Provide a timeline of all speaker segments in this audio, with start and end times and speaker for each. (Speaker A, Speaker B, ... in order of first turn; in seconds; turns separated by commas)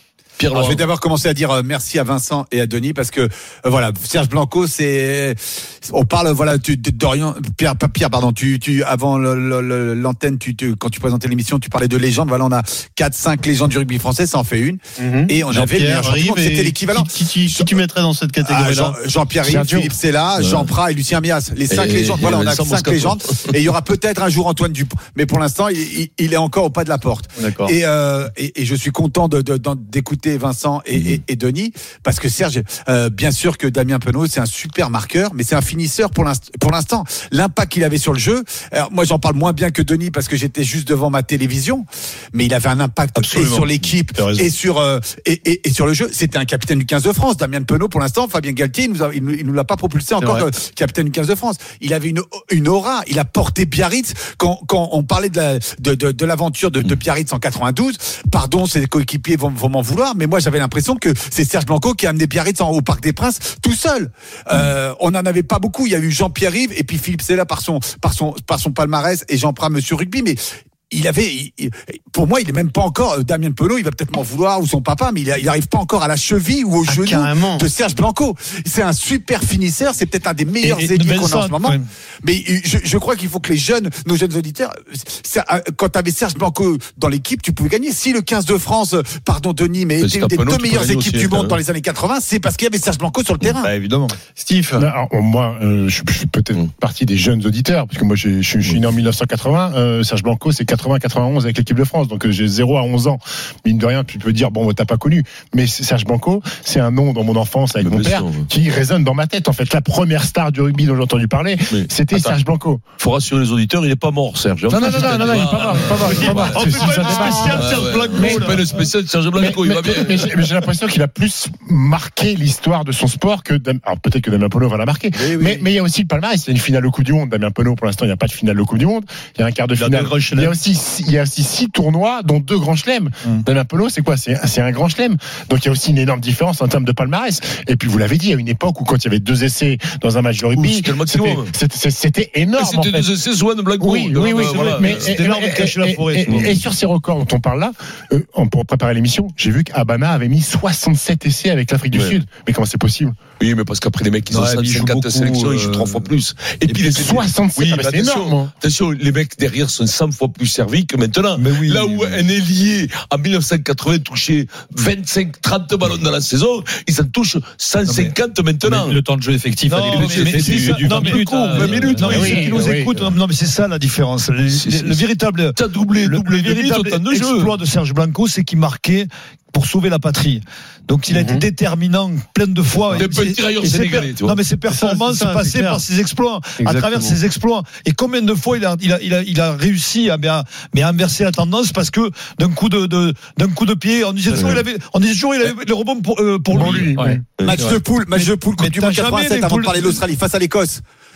Speaker A: 0.4-0.8, Speaker B: 0.5-17.7, Speaker C: 15.0-19.0, Speaker B: 18.4-93.7, Speaker D: 19.4-19.9, Speaker A: 20.4-20.7, Speaker A: 21.7-23.4, Speaker C: 27.4-27.7, Speaker A: 30.9-31.2, Speaker E: 43.1-44.5, Speaker C: 50.2-50.4, Speaker C: 76.8-77.7, Speaker E: 80.6-81.9, Speaker A: 90.0-91.6, Speaker E: 93.6-94.2, Speaker C: 94.3-94.8, Speaker D: 94.8-112.8, Speaker A: 107.8-108.5, Speaker A: 111.7-112.3, Speaker A: 113.0-120.3, Speaker D: 114.7-118.6, Speaker E: 116.0-118.7, Speaker D: 119.3-143.1, Speaker B: 125.3-125.6, Speaker E: 129.8-130.5, Speaker A: 140.5-141.5, Speaker A: 142.6-145.1, Speaker D: 143.8-153.2, Speaker E: 144.4-146.5, Speaker A: 151.9-152.2, Speaker A: 153.4-169.0, Speaker E: 154.3-156.1, Speaker D: 156.9-158.5, Speaker E: 161.4-162.2, Speaker E: 167.8-168.1, Speaker F: 168.9-172.0, Speaker E: 169.6-200.0, Speaker A: 169.8-172.6, Speaker D: 172.0-172.9, Speaker A: 174.5-175.0, Speaker A: 175.6-177.5, Speaker C: 181.1-181.4, Speaker A: 182.9-184.4, Speaker C: 184.7-185.8, Speaker C: 186.6-187.2, Speaker A: 194.3-194.6, Speaker D: 196.5-197.2, Speaker A: 197.4-197.6, Speaker B: 197.4-200.8